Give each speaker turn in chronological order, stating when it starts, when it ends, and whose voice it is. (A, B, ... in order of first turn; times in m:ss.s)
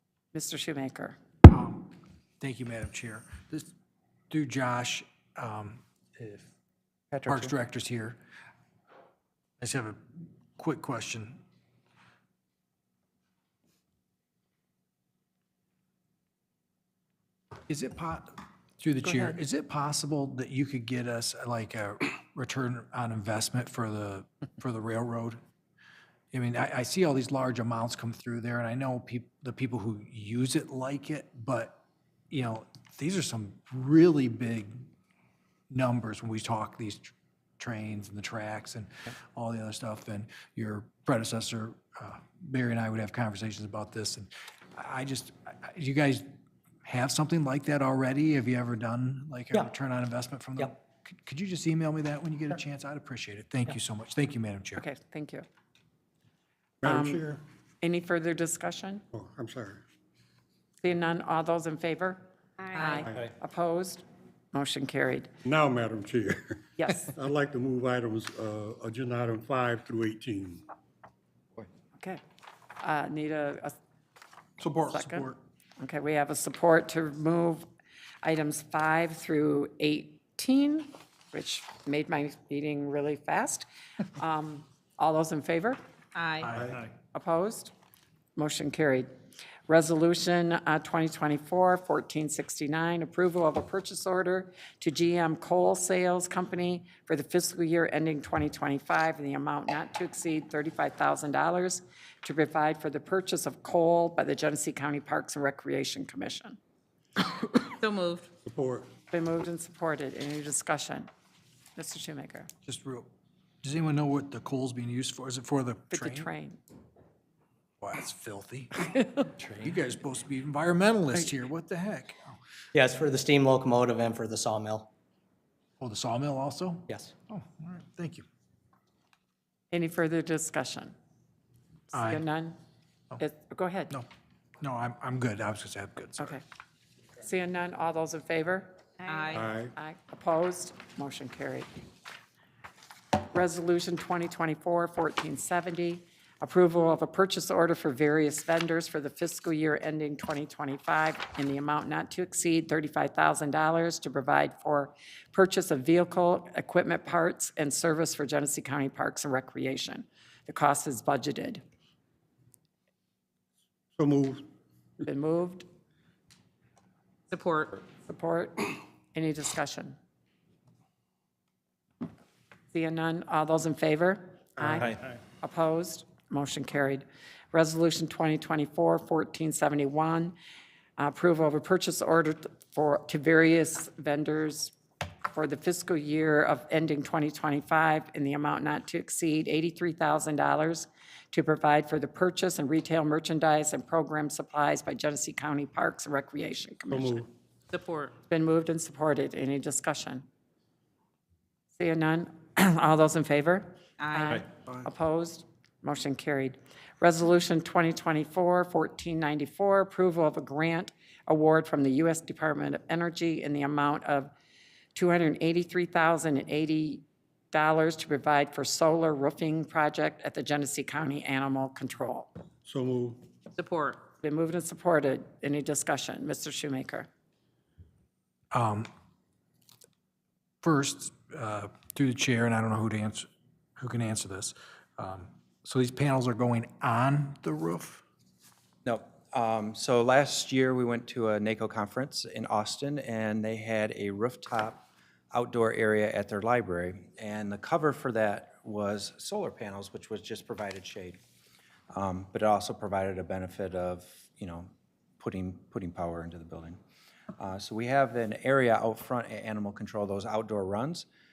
0:00.3-0:01.2 A
0:01.5-0:03.7 B
0:04.3-0:06.5 B
0:07.1-0:07.5 C
0:07.3-0:08.2 B
0:09.6-0:10.0 B
0:10.6-0:11.4 B
0:17.7-0:25.4 B
0:26.3-0:34.8 B
0:35.7-0:46.3 B
0:46.8-0:54.8 B
0:54.8-0:55.5 A
0:56.8-0:57.4 D
0:56.8-0:57.3 A
0:57.8-0:59.0 A
0:59.1-0:59.8 D
1:00.8-1:02.2 A
1:02.7-1:05.3 A
1:02.7-1:03.1 E
1:05.4-1:10.6 D
1:06.8-1:07.1 A
1:12.8-1:13.8 A
1:14.6-1:15.4 B
1:14.9-1:17.7 A
1:18.2-1:25.8 A
1:26.2-1:26.5 E
1:26.4-1:26.9 B
1:27.1-1:27.7 A
1:28.4-1:29.1 A
1:29.7-1:46.6 A
1:47.5-1:48.3 E
1:48.4-1:48.9 D
1:49.1-1:51.1 A
1:51.8-1:52.5 A
1:52.7-1:53.1 B
1:53.6-1:56.3 B
1:55.9-1:56.6 A
1:57.8-2:02.4 B
2:02.7-2:04.9 F
2:05.8-2:08.2 B
2:09.7-2:10.9 A
2:11.9-2:12.6 A
2:11.9-2:12.2 B
2:13.2-2:13.9 A
2:14.6-2:16.4 B
2:17.2-2:18.8 A
2:19.1-2:19.5 E
2:19.3-2:19.7 D
2:19.7-2:21.7 A
2:23.3-2:41.6 A
2:44.0-2:44.5 D
2:45.0-2:45.7 A
2:47.3-2:47.8 E
2:48.0-2:50.0 A
2:52.7-3:00.4 A
3:01.0-3:04.7 A
3:05.3-3:17.3 A
3:16.9-3:17.2 D
3:17.7-3:18.1 E
3:18.3-3:20.2 A
3:21.8-3:34.3 A
3:24.0-3:24.4 E
3:34.9-3:42.3 A
3:42.6-3:43.2 D
3:43.6-3:44.0 E
3:44.2-3:47.1 A
3:48.5-3:48.9 B
3:50.6-3:58.0 B
3:58.8-4:11.2 C
4:11.9-4:16.8 C
4:17.4-4:21.1 C